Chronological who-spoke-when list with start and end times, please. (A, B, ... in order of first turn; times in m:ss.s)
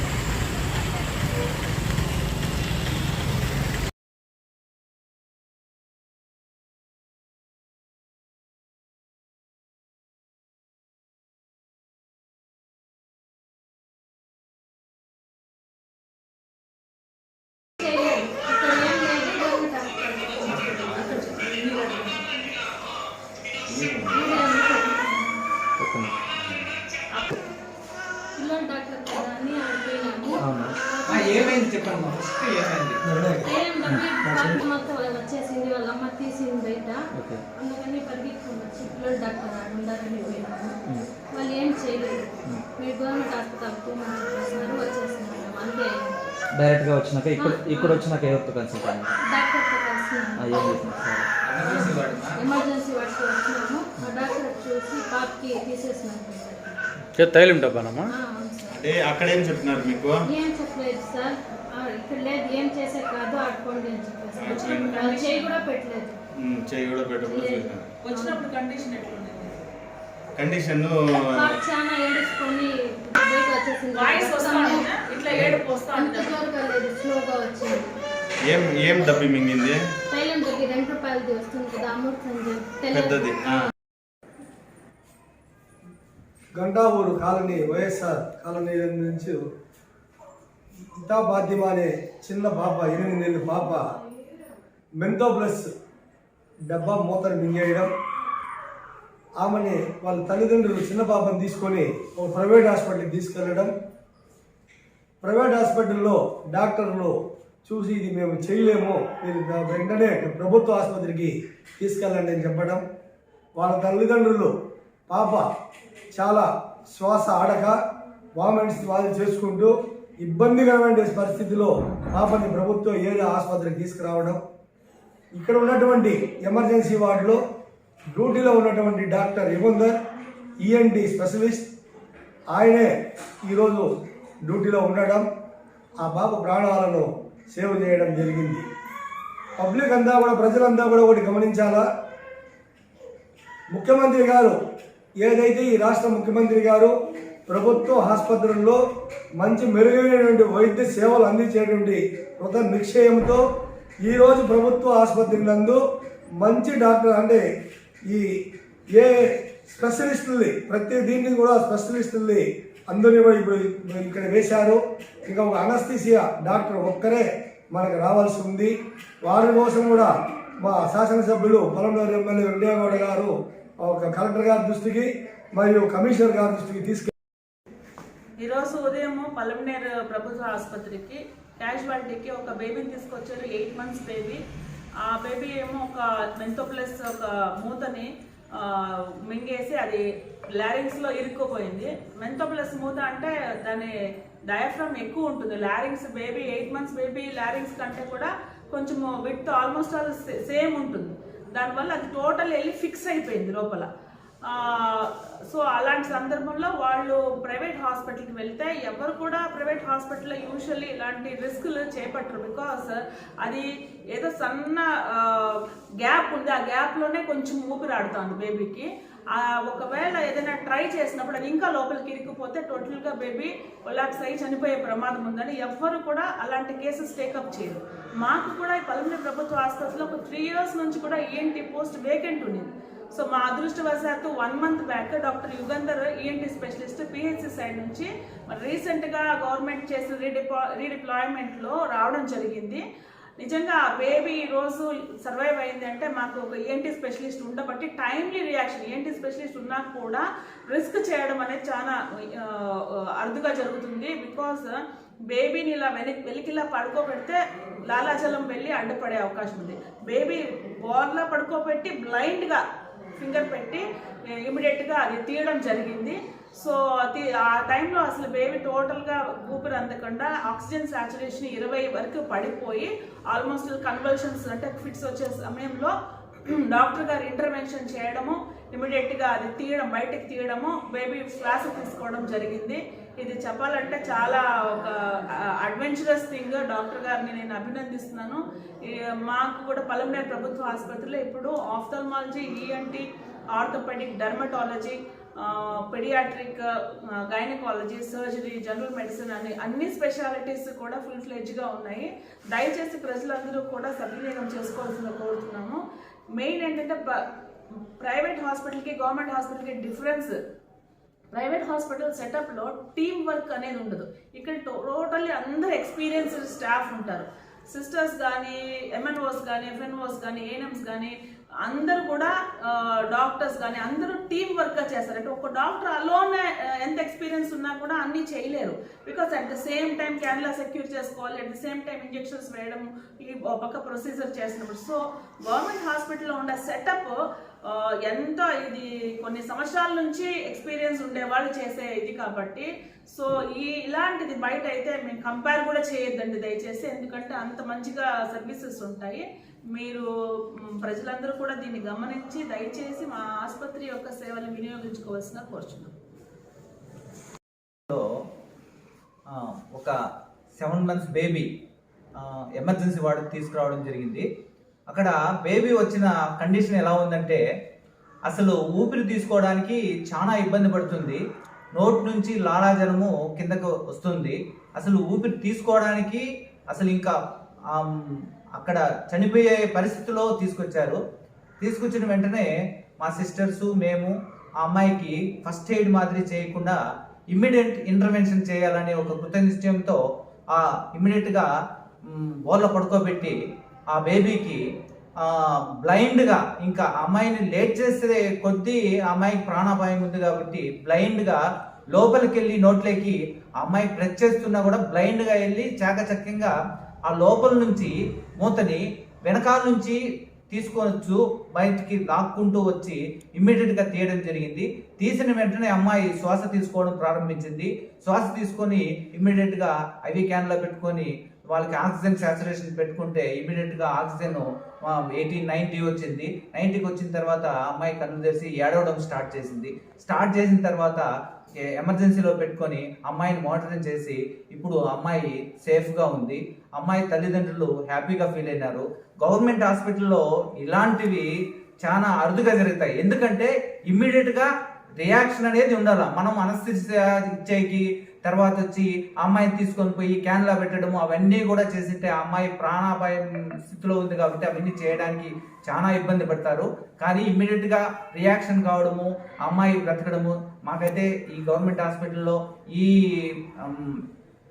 0:17.8-0:22.3 A
0:23.7-0:24.2 B
0:24.1-0:25.4 A
0:25.8-0:26.1 C
0:28.3-0:31.7 A
0:30.4-0:30.7 C
0:31.0-0:33.3 D
0:33.0-0:33.5 E
0:33.4-0:37.0 A
0:33.8-0:34.6 C
0:37.1-0:37.4 C
0:37.6-0:46.2 A
0:46.5-0:49.1 C
0:47.4-0:48.0 A
0:49.2-0:51.0 A
0:50.4-0:51.3 C
0:51.4-0:52.4 F
0:51.6-0:56.8 A
0:57.2-0:58.0 B
0:58.1-0:58.8 A
0:58.7-1:00.2 B
1:00.3-1:06.2 A
1:04.4-1:04.9 B
1:04.4-1:05.6 G
1:06.4-1:07.9 B
1:07.2-1:08.4 A
1:08.0-1:09.6 G
1:10.4-1:11.6 B
1:11.2-1:17.8 A
1:13.9-1:16.4 G
1:18.5-1:19.8 B
1:20.1-1:23.7 A
1:22.9-1:23.7 B
1:26.6-1:29.4 E
1:31.0-1:33.9 E
1:35.0-1:35.7 E
1:36.7-1:37.9 E
1:39.4-1:43.7 E
1:45.2-1:52.8 E
1:53.6-1:54.5 E
1:55.1-1:55.5 E
1:56.1-1:57.8 E
1:58.4-2:04.4 E
2:05.3-2:07.4 E
2:08.1-2:10.0 E
2:10.6-2:11.7 E
2:12.5-2:12.9 E
2:13.4-2:13.9 E
2:14.4-2:15.3 E
2:16.0-2:18.6 E
2:19.6-2:21.8 E
2:23.7-2:24.6 E
2:25.2-2:26.9 E
2:27.5-2:28.8 E
2:29.4-2:33.4 E
2:34.0-2:35.8 E
2:36.4-2:37.4 E
2:39.0-2:48.7 E
2:49.2-2:57.1 E
2:58.4-3:04.4 G
3:05.0-3:10.0 G
3:10.6-3:13.9 G
3:14.5-3:23.9 G
3:24.5-4:02.8 G
4:03.4-4:14.8 G
4:15.3-4:22.6 G
4:23.2-4:35.9 G
4:36.5-5:05.8 G
5:06.4-5:07.2 G
5:08.0-5:10.3 G
5:11.3-5:50.1 G
5:50.8-5:55.9 G
5:59.3-5:59.9 F
6:00.6-6:01.5 F
6:02.2-6:04.2 F
6:04.9-6:07.4 F
6:08.3-6:11.2 F
6:11.7-6:17.1 F
6:18.6-6:21.0 F
6:21.6-6:22.5 F
6:23.0-6:26.8 F
6:27.3-6:30.0 F
6:30.5-6:31.5 F
6:32.1-6:33.4 F
6:33.9-6:34.6 F
6:35.8-6:41.4 F
6:41.9-6:46.5 F
6:47.1-6:50.0 F
6:50.5-7:11.0 F
7:11.7-7:21.3 F
7:21.8-7:24.5 F
7:25.0-7:44.0 F